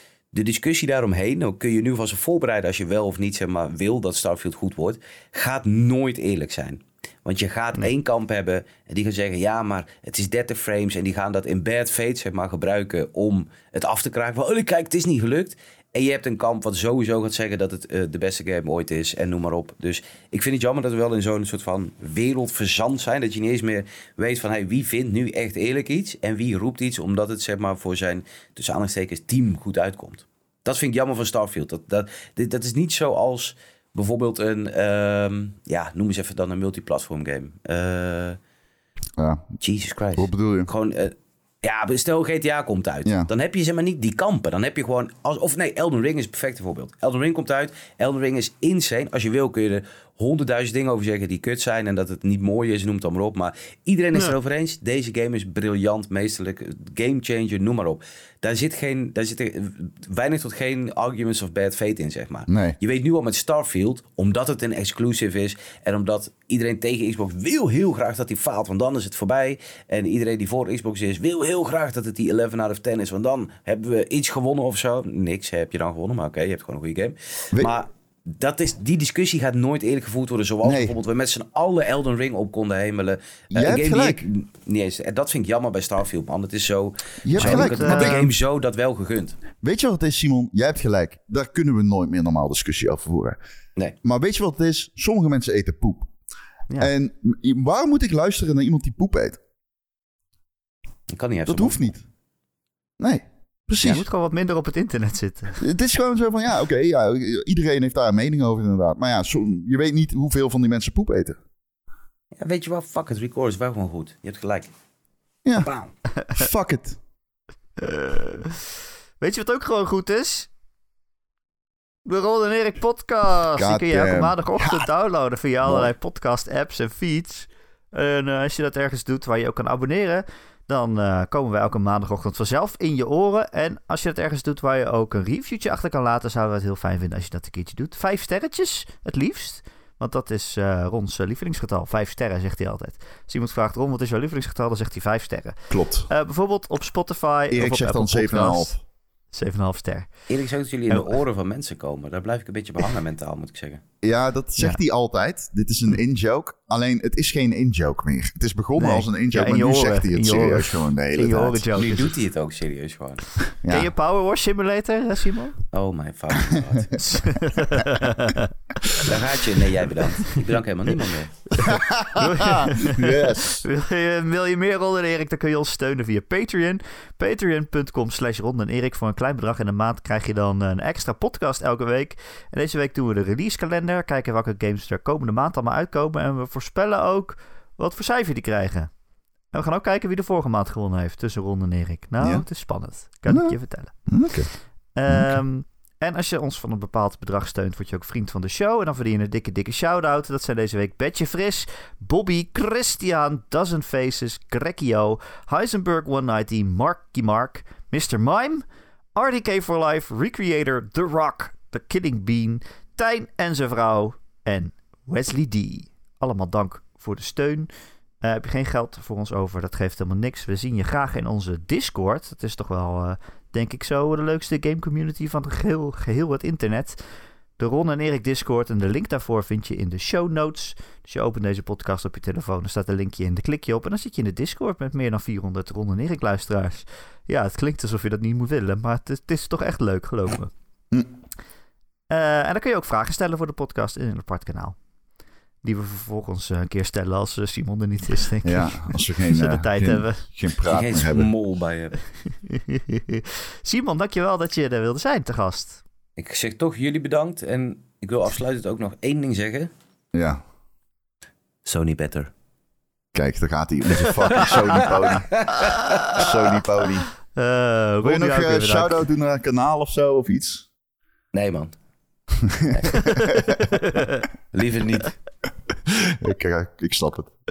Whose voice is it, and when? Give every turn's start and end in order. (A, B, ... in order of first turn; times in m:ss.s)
0:00.3-0:38.4 A
0:39.2-0:39.4 B
0:39.6-1:29.4 A
0:40.2-0:40.7 B
1:02.5-1:02.8 B
1:20.6-1:21.0 B
1:23.5-1:24.2 B
1:27.2-1:28.3 B
1:27.4-1:28.2 C
1:29.6-1:33.4 B
1:34.0-1:36.1 B
1:36.8-1:39.4 B
1:41.1-1:41.8 A
1:41.5-1:42.0 B
1:43.0-1:44.1 B
1:43.8-1:45.6 C
1:45.6-1:51.4 B
1:52.4-1:54.7 A
1:55.6-1:55.9 A
1:56.3-1:57.0 B
1:57.8-1:58.6 C
1:59.2-2:00.5 C
2:02.0-2:28.7 C
2:03.6-2:04.9 B
2:25.7-2:26.1 B
2:27.5-2:28.8 B
2:29.3-2:30.1 C
2:30.3-2:33.8 A
2:30.9-2:31.2 C
2:34.0-2:41.6 B
2:38.8-2:42.2 C
2:41.7-2:43.3 A
2:43.6-2:43.9 B
2:43.7-2:45.6 C
2:45.7-2:47.0 A
2:46.5-2:47.0 B
2:47.0-2:48.5 C
2:49.0-2:51.4 A
2:51.5-3:08.9 C
2:51.6-2:53.6 B
3:09.5-3:14.1 C
3:12.2-3:12.5 B
3:13.3-3:14.5 B
3:15.0-3:37.7 C
3:15.1-3:15.4 B
3:38.2-3:47.0 C
3:47.6-4:00.5 C
4:02.1-4:04.8 C
4:05.6-4:10.2 C
4:08.4-4:11.3 B
4:10.6-4:12.0 A
4:12.3-4:15.8 C
4:16.2-4:19.7 A
4:20.1-4:20.4 B
4:21.6-4:22.3 A
4:23.1-4:25.4 B
4:24.3-4:26.3 A
4:26.1-4:27.1 B
4:27.3-4:29.1 C
4:28.0-4:30.7 B
4:31.3-4:31.7 A
4:32.4-4:33.6 B
4:32.7-4:33.2 A
4:32.9-4:34.2 C
4:34.5-4:35.2 A
4:35.9-4:37.3 B